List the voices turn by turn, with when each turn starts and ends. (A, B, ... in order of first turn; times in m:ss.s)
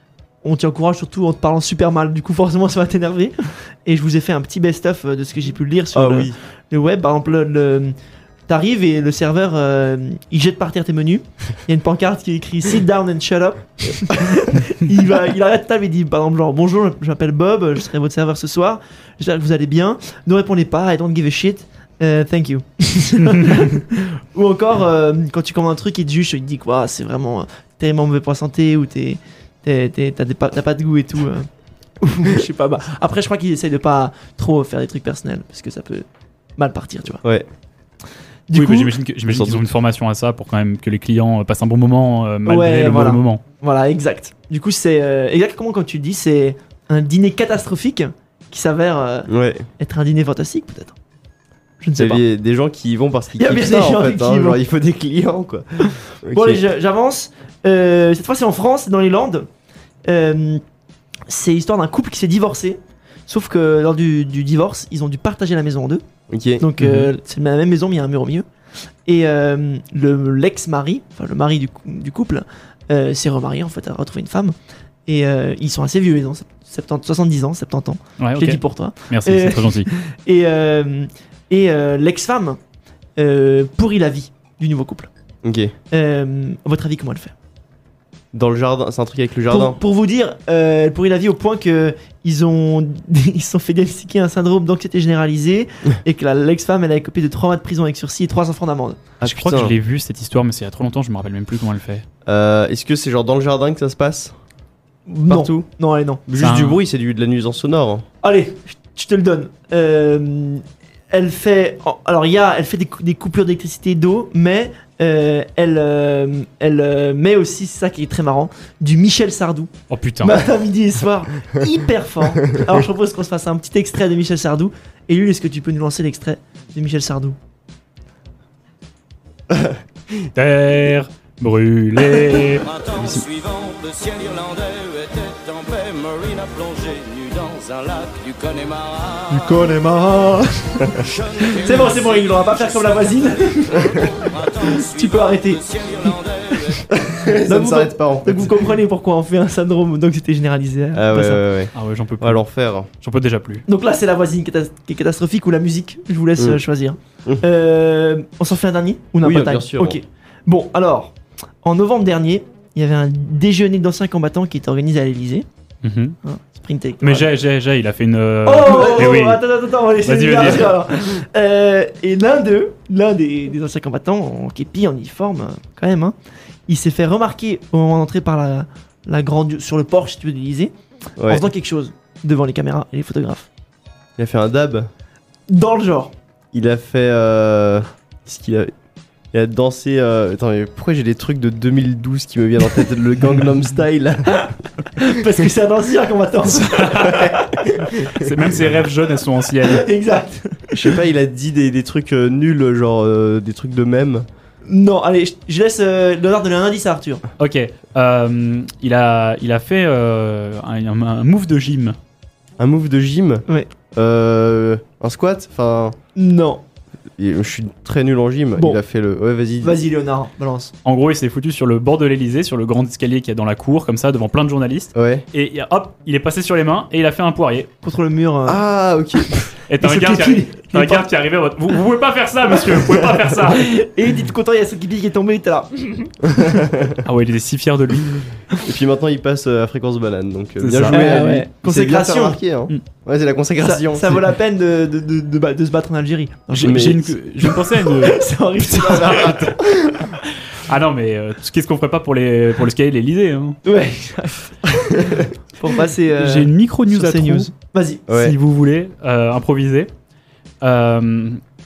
0:00.4-0:07.9 A
0:05.9-0:06.4 B
0:08.5-0:31.5 A
0:32.0-0:37.2 A
0:38.5-0:38.9 A
0:38.5-0:43.4 C
0:39.3-0:39.6 B
0:42.4-0:51.0 A
0:49.3-0:49.7 B
0:51.8-0:52.2 A
0:52.0-0:56.6 B
0:53.4-0:54.6 A
0:56.3-0:59.5 A
1:00.0-1:00.6 A
1:01.3-1:06.0 A
1:06.3-1:06.6 B
1:06.6-1:08.4 A
1:06.8-1:07.1 C
1:09.0-1:14.5 A
1:15.0-1:22.6 A
1:18.2-1:19.9 C
1:23.2-1:25.1 A
1:25.4-1:25.7 B
1:25.9-1:27.3 A
1:28.3-1:29.8 B
1:29.5-1:39.0 A
1:39.2-1:39.7 B
1:39.2-1:42.0 C
1:42.2-1:44.3 B
1:45.1-1:46.2 A
1:45.3-1:45.7 B
1:46.3-1:48.0 B
1:46.4-1:46.8 C
1:48.2-1:59.7 A
1:59.9-2:00.4 C
2:00.2-2:07.4 A
2:09.5-2:09.8 B
2:10.3-2:13.2 C
2:12.2-2:19.6 D
2:19.3-2:26.1 A
2:20.9-2:26.9 D
2:26.6-2:31.4 A
2:26.9-2:28.7 B
2:30.9-2:32.9 B
2:31.7-2:32.4 C
2:33.0-2:33.6 C
2:33.7-2:45.4 A
2:39.2-2:40.0 B
2:45.8-2:46.2 C
2:46.2-2:47.3 A
2:47.0-2:49.4 C
2:48.4-2:56.1 A
2:50.0-2:50.8 C
2:56.7-3:00.7 A
3:01.2-3:01.4 B
3:01.2-3:03.5 A
3:04.2-3:04.9 B
3:05.5-3:06.1 A
3:06.5-3:08.7 B
3:09.3-3:14.5 B
3:14.4-3:17.6 A
3:16.5-3:17.3 C
3:17.0-3:18.6 B
3:18.1-3:19.9 C
3:19.6-3:20.9 A
3:20.7-3:24.2 B
3:24.6-3:27.2 A
3:27.4-3:32.0 C
3:32.6-3:36.0 B
3:36.2-3:36.6 A
3:37.2-3:39.8 B
3:39.6-3:40.7 A
3:40.8-3:47.7 C
3:44.9-3:45.2 B
3:47.8-3:48.6 A
3:48.5-3:49.5 B
3:49.7-3:53.8 C
3:49.8-3:51.1 A
3:53.0-3:56.7 A
3:56.3-3:57.0 B
3:57.0-3:58.3 C
3:58.6-4:04.2 B
4:00.6-4:01.4 C
4:00.9-4:02.4 A
4:03.6-4:10.1 A
4:06.5-4:09.6 C
4:06.6-4:07.0 B
4:08.8-4:10.0 B
4:10.5-4:13.6 C
4:13.6-4:18.0 A
4:16.2-4:17.5 C
4:18.1-4:18.4 B
4:18.1-4:19.9 C
4:20.6-4:21.4 C